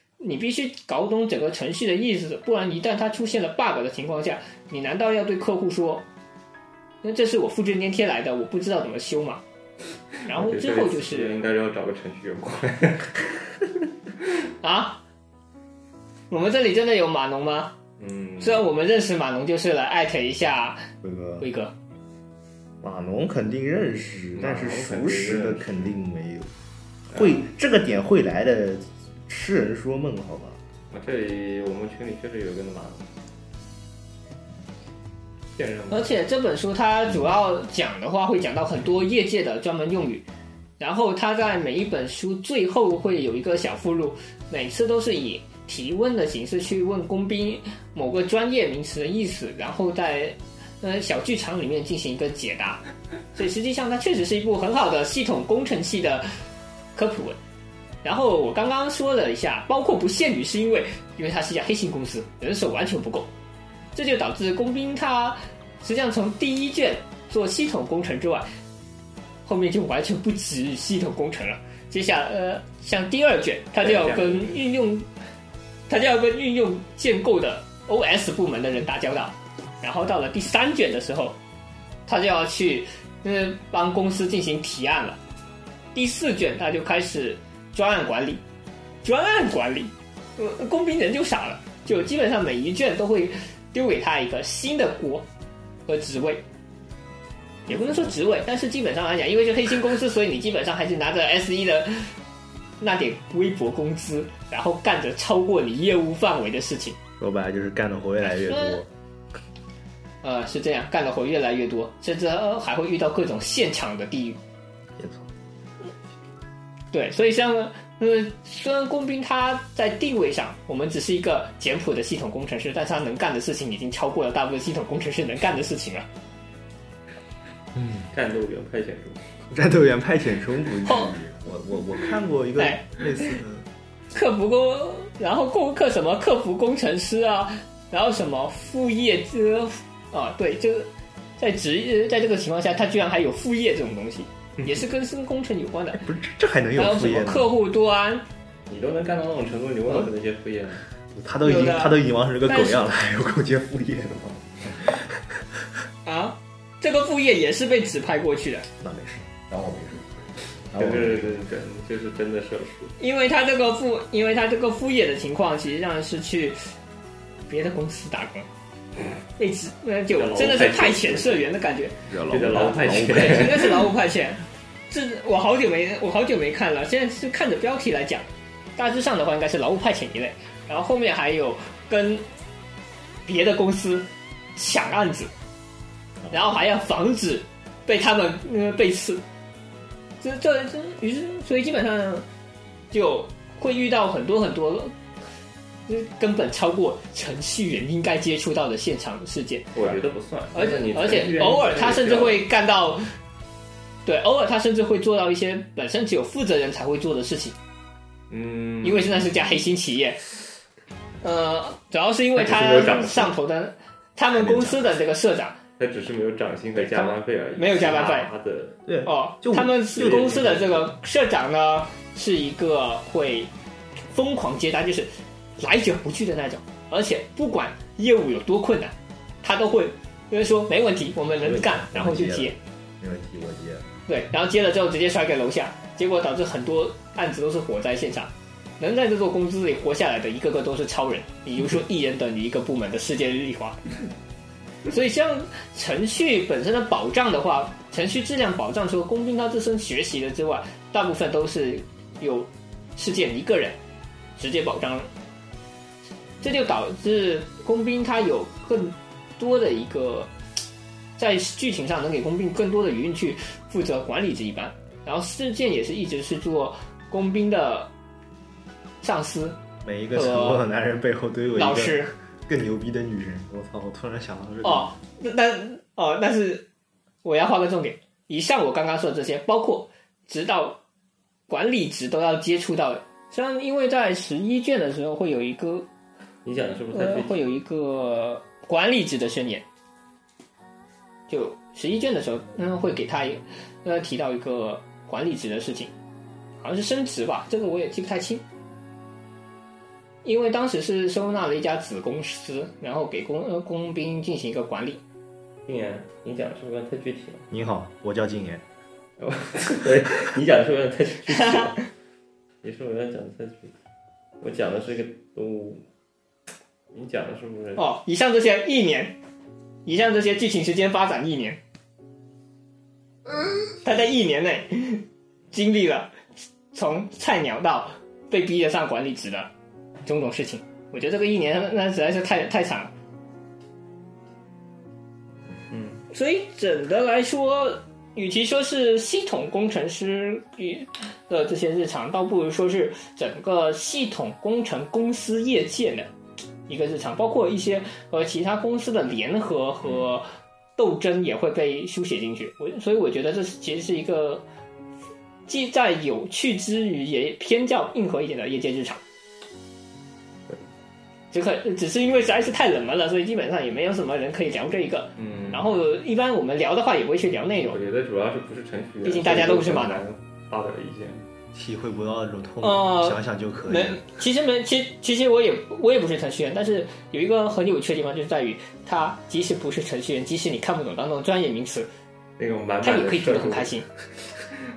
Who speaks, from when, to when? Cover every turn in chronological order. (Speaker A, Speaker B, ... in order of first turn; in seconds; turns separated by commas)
Speaker A: 0.2-6.0, Speaker A: 7.0-9.4, Speaker A: 10.2-11.3, Speaker B: 10.3-13.5, Speaker A: 14.6-15.0, Speaker A: 16.3-17.8, Speaker B: 18.0-18.6, Speaker A: 18.4-20.9, Speaker C: 21.0-21.4, Speaker A: 21.4-21.7, Speaker C: 22.8-26.5, Speaker B: 24.3-25.9, Speaker C: 27.1-30.6, Speaker B: 27.1-27.4, Speaker B: 30.9-33.1, Speaker B: 35.6-36.1, Speaker A: 35.9-40.2, Speaker A: 40.8-56.3, Speaker A: 56.9-57.4, Speaker A: 58.0-63.3, Speaker A: 63.9-68.5, Speaker A: 69.5-75.1, Speaker B: 73.8-74.6, Speaker A: 75.9-81.4, Speaker A: 82.1-85.2, Speaker A: 85.9-88.4, Speaker A: 89.0-95.2, Speaker A: 95.9-96.4, Speaker A: 97.7-102.1, Speaker A: 102.8-107.0, Speaker C: 107.2-108.9, Speaker A: 108.4-108.8, Speaker A: 110.2-114.4, Speaker C: 115.0-115.3, Speaker A: 116.9-126.0, Speaker C: 127.8-128.1, Speaker B: 128.1-129.3, Speaker C: 129.5-133.7, Speaker A: 130.8-131.1, Speaker A: 132.6-132.9, Speaker A: 134.1-146.0, Speaker C: 146.0-147.5, Speaker A: 146.8-148.2, Speaker B: 148.7-150.8, Speaker C: 151.1-155.4, Speaker A: 151.4-152.9, Speaker A: 156.0-158.7, Speaker C: 158.8-161.3, Speaker B: 160.7-162.9, Speaker A: 163.0-166.6, Speaker A: 167.5-168.5, Speaker A: 169.3-172.0, Speaker B: 170.1-171.5, Speaker C: 172.1-173.6, Speaker B: 172.2-173.9, Speaker A: 172.9-182.2, Speaker A: 183.2-185.3, Speaker A: 186.3-189.2, Speaker A: 190.2-192.2, Speaker A: 192.9-195.0, Speaker A: 195.9-199.7, Speaker B: 199.7-202.4, Speaker A: 200.5-203.1, Speaker A: 204.1-207.6, Speaker B: 208.3-209.3, Speaker A: 208.8-210.2, Speaker A: 211.2-215.6, Speaker B: 212.3-213.3, Speaker C: 214.3-215.0, Speaker B: 215.8-218.8, Speaker A: 216.8-218.3, Speaker C: 218.8-220.6, Speaker A: 219.0-223.5, Speaker B: 220.0-220.8, Speaker A: 224.0-232.6, Speaker C: 231.4-233.8, Speaker A: 234.1-243.8, Speaker A: 244.9-253.8, Speaker A: 254.4-255.1, Speaker A: 256.4-260.3, Speaker A: 261.2-267.9, Speaker A: 269.0-269.6, Speaker C: 269.8-274.9, Speaker A: 270.1-270.6, Speaker A: 271.6-272.1, Speaker A: 274.6-276.6, Speaker A: 277.2-280.8, Speaker A: 281.5-285.9, Speaker B: 286.4-287.4, Speaker A: 286.9-289.6, Speaker A: 291.3-295.9, Speaker A: 296.6-298.4, Speaker A: 300.2-305.0, Speaker B: 305.6-307.5, Speaker C: 307.5-308.6, Speaker B: 309.2-311.8, Speaker A: 311.4-311.7, Speaker B: 312.6-313.7, Speaker B: 314.4-315.8, Speaker B: 316.9-317.8, Speaker A: 317.8-319.2, Speaker A: 319.8-321.6, Speaker A: 323.8-326.1, Speaker A: 326.7-329.5, Speaker A: 330.1-332.9, Speaker B: 335.7-336.0, Speaker A: 336.1-346.1, Speaker A: 346.7-350.2, Speaker A: 350.8-354.4, Speaker A: 355.5-359.0, Speaker A: 361.3-367.8, Speaker B: 365.2-365.7, Speaker B: 367.7-371.2, Speaker A: 369.0-370.0, Speaker C: 371.5-374.0, Speaker A: 372.6-381.9, Speaker B: 382.4-383.8, Speaker A: 382.8-383.9